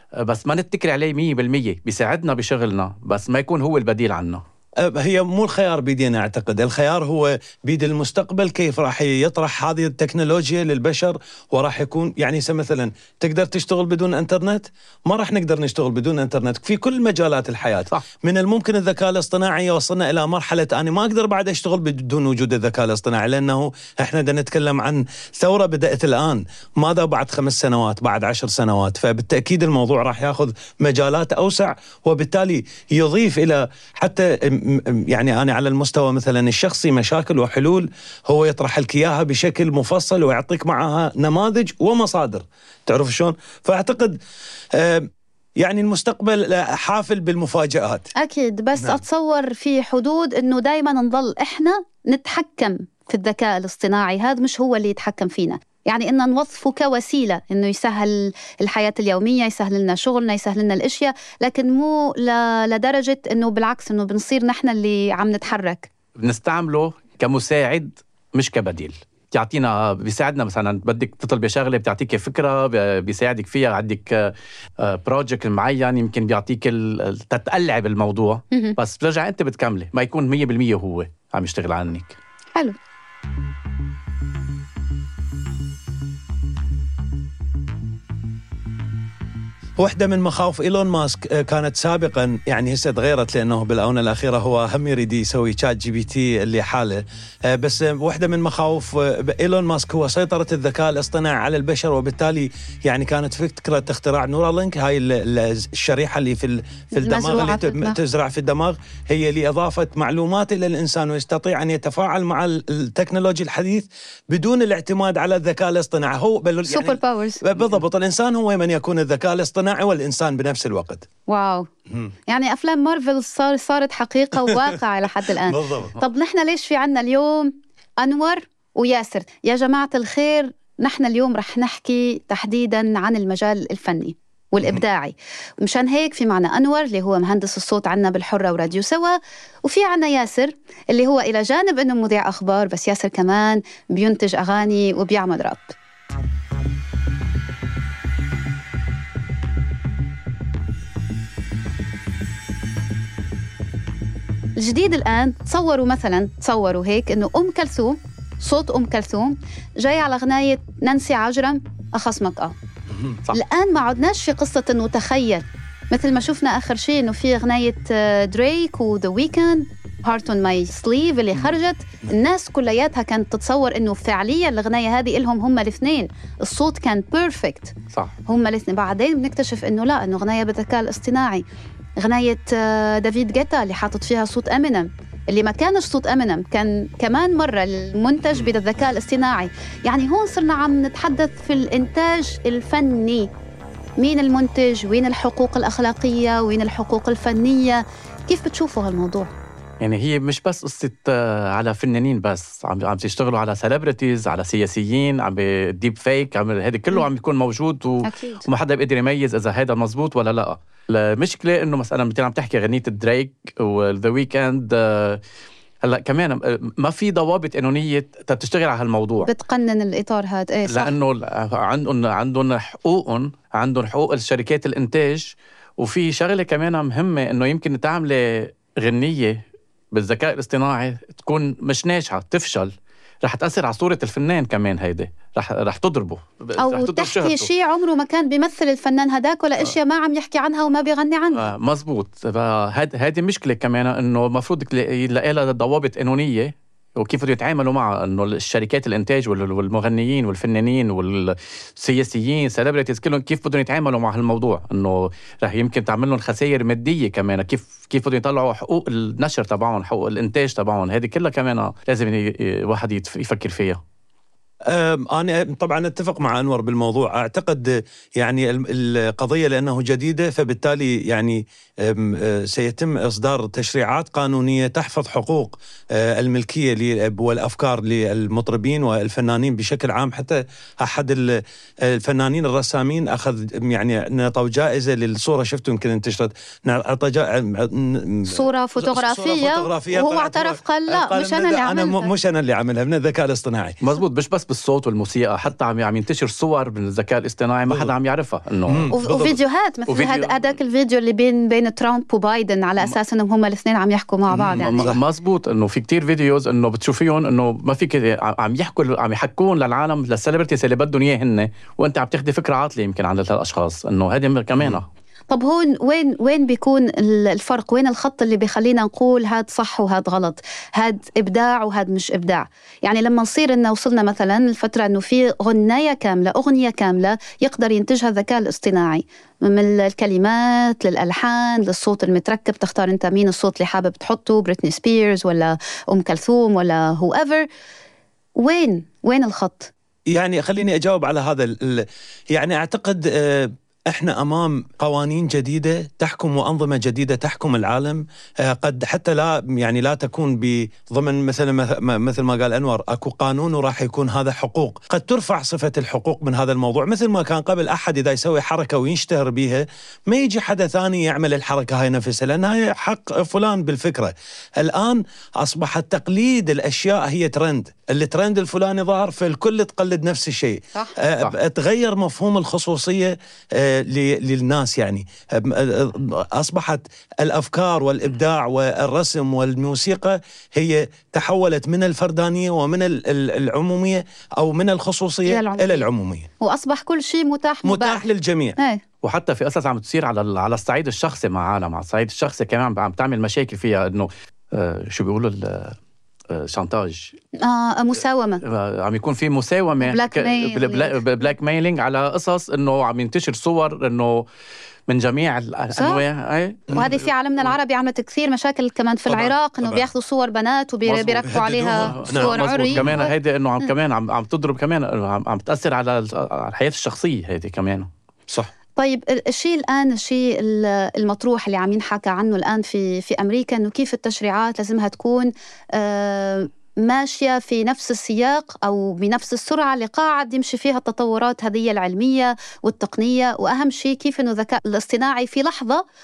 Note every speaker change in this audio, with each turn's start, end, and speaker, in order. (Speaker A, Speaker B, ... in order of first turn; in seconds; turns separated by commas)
Speaker A: 0.2-4.4, Speaker B: 4.8-44.2, Speaker B: 44.7-45.1, Speaker B: 45.6-48.1, Speaker C: 48.2-65.9, Speaker B: 48.8-49.0, Speaker A: 66.2-82.2, Speaker B: 89.8-121.1, Speaker C: 107.0-108.0, Speaker C: 116.7-117.4, Speaker C: 121.3-121.7, Speaker C: 122.3-145.7, Speaker B: 125.5-126.0, Speaker C: 154.6-162.5, Speaker B: 162.9-163.2, Speaker C: 163.3-177.7, Speaker C: 178.3-181.4, Speaker C: 182.0-193.3, Speaker C: 194.0-199.3, Speaker A: 199.8-215.2, Speaker C: 208.0-208.4, Speaker A: 215.8-219.3, Speaker C: 219.3-220.9, Speaker A: 220.7-232.7, Speaker A: 233.2-237.5, Speaker C: 236.6-241.4, Speaker A: 241.3-263.8, Speaker B: 264.7-281.4, Speaker B: 281.9-293.8, Speaker C: 288.3-292.1, Speaker A: 293.8-299.0, Speaker B: 297.7-297.9, Speaker B: 298.7-299.4, Speaker C: 298.9-304.9, Speaker A: 299.9-300.4, Speaker B: 304.3-305.0, Speaker A: 304.6-314.9, Speaker C: 315.3-337.5, Speaker C: 338.4-339.7, Speaker B: 340.1-386.3, Speaker C: 385.3-385.9, Speaker C: 386.4-388.1, Speaker B: 387.6-388.6, Speaker A: 389.0-395.8, Speaker A: 396.3-397.2, Speaker C: 397.4-398.4, Speaker A: 398.4-404.2, Speaker C: 399.8-401.0, Speaker A: 404.9-406.9, Speaker C: 405.8-406.0, Speaker C: 406.7-413.1, Speaker B: 409.1-409.9, Speaker A: 410.9-417.9, Speaker B: 411.2-413.1, Speaker C: 418.8-435.8